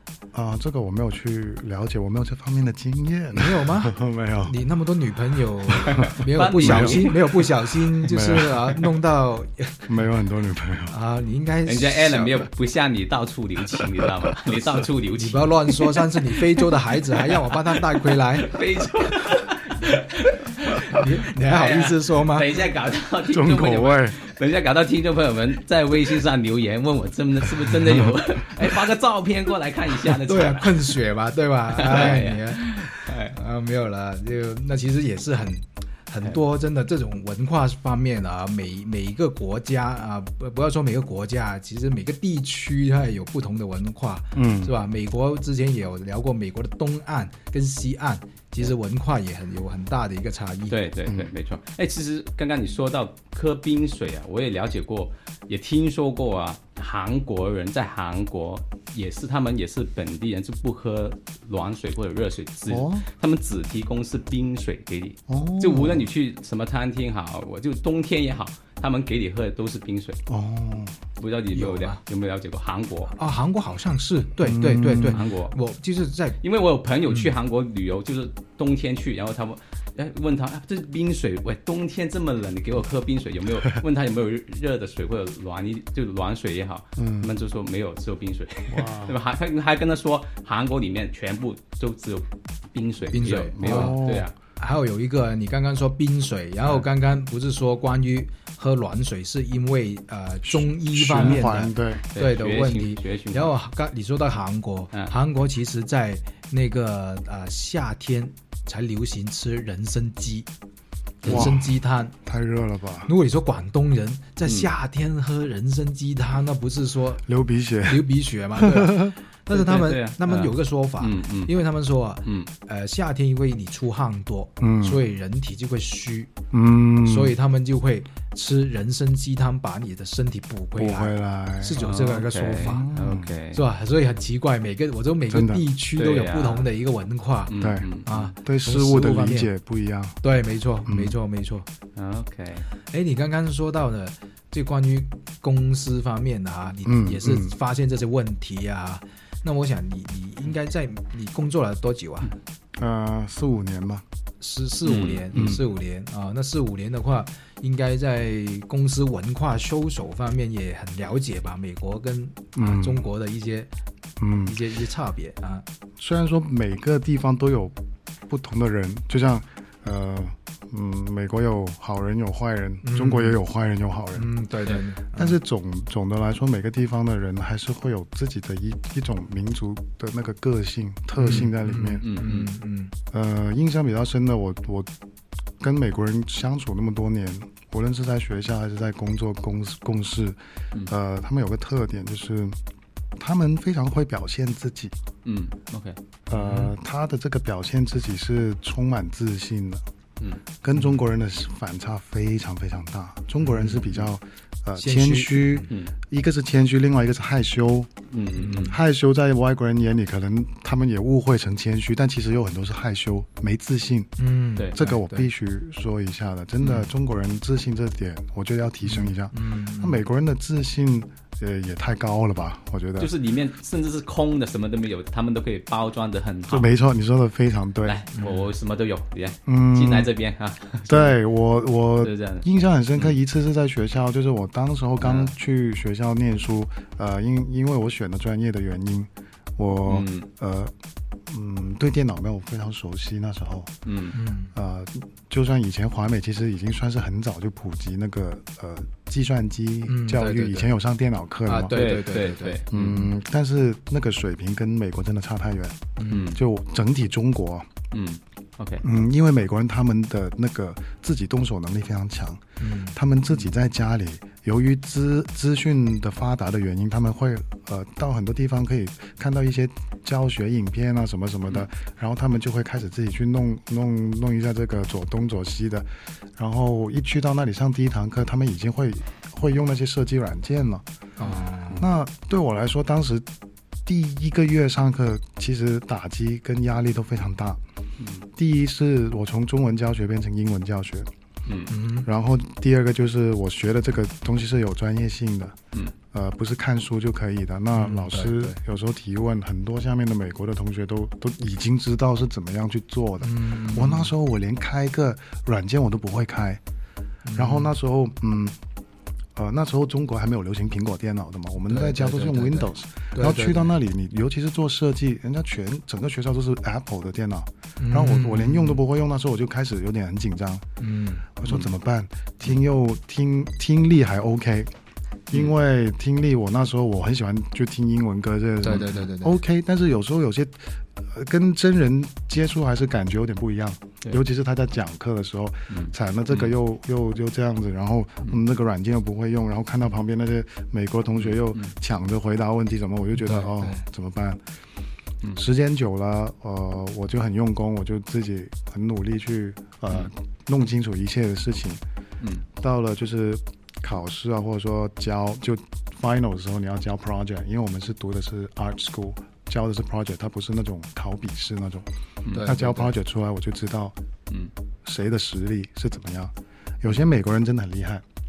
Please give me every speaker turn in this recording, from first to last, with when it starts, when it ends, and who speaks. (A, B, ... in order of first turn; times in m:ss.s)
0:00.3-0:04.6 A
0:03.3-0:09.9 B
0:05.8-0:07.5 C
0:05.9-0:07.1 A
0:08.0-0:08.8 A
0:09.9-0:10.9 A
0:10.9-0:12.5 B
0:11.6-0:16.6 C
0:15.2-0:18.6 B
0:17.2-0:31.0 C
0:20.9-0:22.6 B
0:23.3-0:24.2 A
0:30.0-0:50.8 B
0:31.7-0:33.4 C
0:44.3-0:44.7 A
0:50.7-1:10.2 C
0:51.1-0:51.3 A
1:02.7-1:03.0 A
1:05.3-1:06.1 A
1:10.3-1:11.0 A
1:11.2-1:13.1 C
1:11.5-1:12.0 B
1:13.1-1:16.4 B
1:14.4-1:15.2 A
1:15.1-1:15.5 C
1:16.4-1:34.3 C
1:27.0-1:27.3 A
1:28.7-1:29.2 A
1:33.1-1:34.0 B
1:33.6-1:34.3 A
1:34.6-1:50.5 B
1:40.4-1:42.0 A
1:41.2-1:41.4 C
1:42.1-1:43.6 C
1:51.2-1:52.1 B
1:51.2-1:53.1 A
1:53.0-1:57.2 B
1:57.2-1:59.1 A
1:57.8-2:06.3 B
1:59.5-2:01.5 C
2:02.2-2:02.5 C
2:04.6-2:05.0 A
2:06.5-2:07.3 A
2:07.0-2:12.9 B
2:10.7-2:11.8 A
2:11.8-2:13.6 C
2:12.6-2:13.3 A
2:13.5-2:17.5 B
2:15.3-2:15.6 A
2:16.0-2:16.7 C
2:17.5-2:18.3 C
2:17.6-2:20.2 A
2:18.0-2:19.5 B
2:20.2-2:21.7 B
2:20.9-2:21.1 A
2:22.0-2:22.7 C
2:22.9-2:32.3 B
2:26.8-2:27.6 A
2:32.8-2:34.0 A
2:34.4-2:43.7 B
2:34.8-2:35.6 C
2:35.3-2:35.6 A
2:42.6-2:43.0 A
2:44.2-2:44.6 A
2:44.4-2:45.6 B
2:46.0-2:47.8 A
2:48.3-2:54.3 A
2:52.8-2:53.4 B
2:54.1-2:55.4 B
2:55.1-3:02.0 A
3:01.2-3:02.9 B
3:02.0-3:02.5 C
3:03.1-3:04.9 A
3:05.6-3:12.6 A
3:13.2-3:14.9 A
3:15.2-3:16.0 C
3:16.3-3:19.8 A
3:20.6-3:27.9 A
3:23.4-3:23.8 B
3:23.8-3:24.1 C
3:24.8-3:25.6 B
3:28.1-3:28.7 C
3:28.4-3:28.8 B
3:28.6-3:34.1 A
3:34.2-3:35.3 B
3:34.7-3:43.1 A
3:36.6-3:36.9 C
3:38.8-3:40.0 B
3:43.0-3:46.7 C
3:46.5-3:48.0 A
3:47.8-3:51.2 C
3:48.1-3:48.5 B
3:49.4-3:50.1 A
3:50.9-4:00.7 A
3:52.0-3:52.4 C
3:55.0-3:55.3 C
3:59.8-4:00.3 C
4:01.3-4:03.7 A
4:03.8-4:04.2 C
4:04.1-4:04.5 B
4:04.5-4:11.8 A
4:09.9-4:10.7 B
4:11.4-4:12.7 B
4:11.7-4:13.1 C
4:12.7-4:15.8 A
4:16.0-4:16.3 B
4:16.1-4:16.4 C
4:16.3-4:17.7 A
4:17.9-4:18.8 C
4:18.8-4:40.8 A
4:22.6-4:23.0 B
4:41.2-4:41.9 B
4:41.8-4:43.3 A
4:43.8-4:47.6 A
4:48.0-4:48.2 C
4:48.3-4:51.1 A
4:51.4-4:51.7 C
4:51.7-4:52.1 B
4:52.0-4:55.6 A
4:56.1-5:06.6 A
4:57.7-4:58.6 B
5:03.2-5:04.1 B
5:07.2-5:07.7 B
5:07.3-5:08.6 A
5:09.4-5:20.6 A
5:11.7-5:13.7 B
5:17.8-5:18.8 B
5:20.8-5:21.3 B
5:21.4-5:24.7 A
5:25.3-5:44.4 A
5:28.6-5:29.4 B
5:28.7-5:28.9 C
5:35.7-5:36.5 C
5:41.2-5:41.7 C
5:43.2-5:43.8 B
5:45.3-5:51.8 A
5:52.6-6:01.9 A
6:02.2-6:02.5 C
6:02.3-6:02.9 B
6:02.4-6:04.0 A
6:04.8-6:08.0 A